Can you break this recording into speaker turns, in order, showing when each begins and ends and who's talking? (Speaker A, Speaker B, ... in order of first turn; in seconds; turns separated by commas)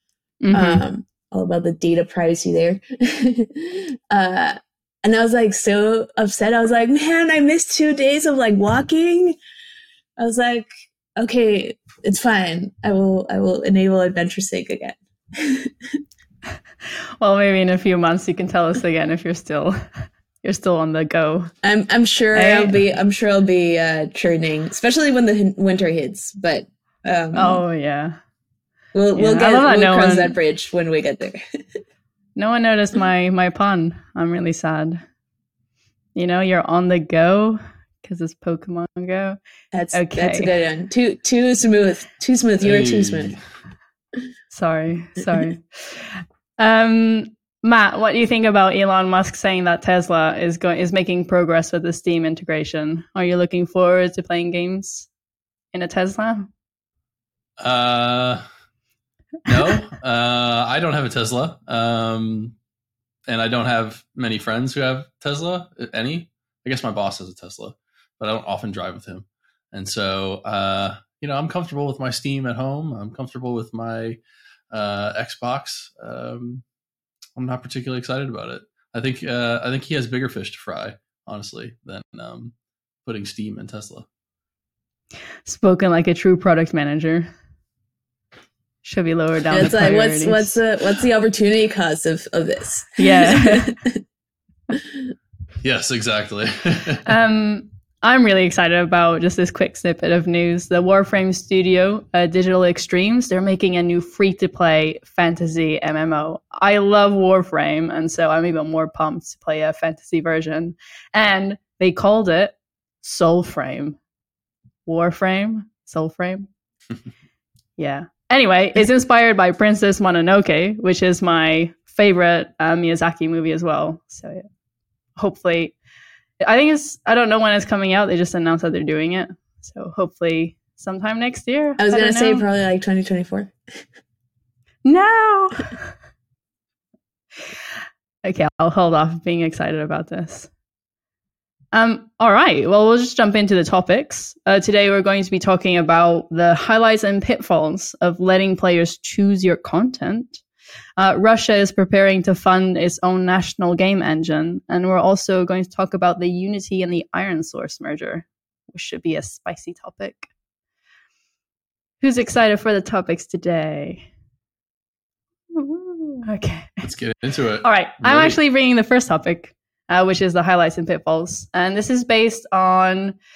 Speaker A: 0.4-0.8, Speaker B: 0.5-9.4, Speaker B: 10.2-15.9, Speaker A: 17.2-21.5, Speaker B: 21.6-27.6, Speaker A: 22.3-22.8, Speaker A: 27.3-28.2, Speaker B: 28.9-31.6, Speaker A: 29.1-30.4, Speaker A: 32.4-35.0, Speaker A: 36.1-39.4, Speaker B: 39.7-43.3, Speaker A: 39.9-40.5, Speaker C: 42.6-43.4, Speaker A: 44.5-55.1, Speaker A: 55.7-56.5, Speaker C: 57.6-58.4, Speaker C: 59.5-62.5, Speaker C: 63.3-74.2, Speaker C: 74.7-76.6, Speaker C: 77.4-82.5, Speaker C: 83.0-84.0, Speaker A: 85.5-87.3, Speaker A: 88.8-90.6, Speaker B: 89.5-94.0, Speaker A: 93.0-93.7, Speaker B: 94.7-95.0, Speaker C: 95.6-97.0, Speaker A: 97.0-114.0, Speaker A: 114.9-116.5, Speaker A: 117.8-124.5, Speaker A: 125.2-125.8, Speaker A: 126.4-132.4, Speaker B: 131.8-133.5, Speaker A: 134.8-135.7, Speaker A: 138.2-140.5, Speaker A: 141.7-150.4, Speaker A: 151.0-160.3, Speaker A: 162.0-164.1, Speaker A: 165.5-166.9, Speaker C: 166.8-168.4, Speaker A: 167.6-173.2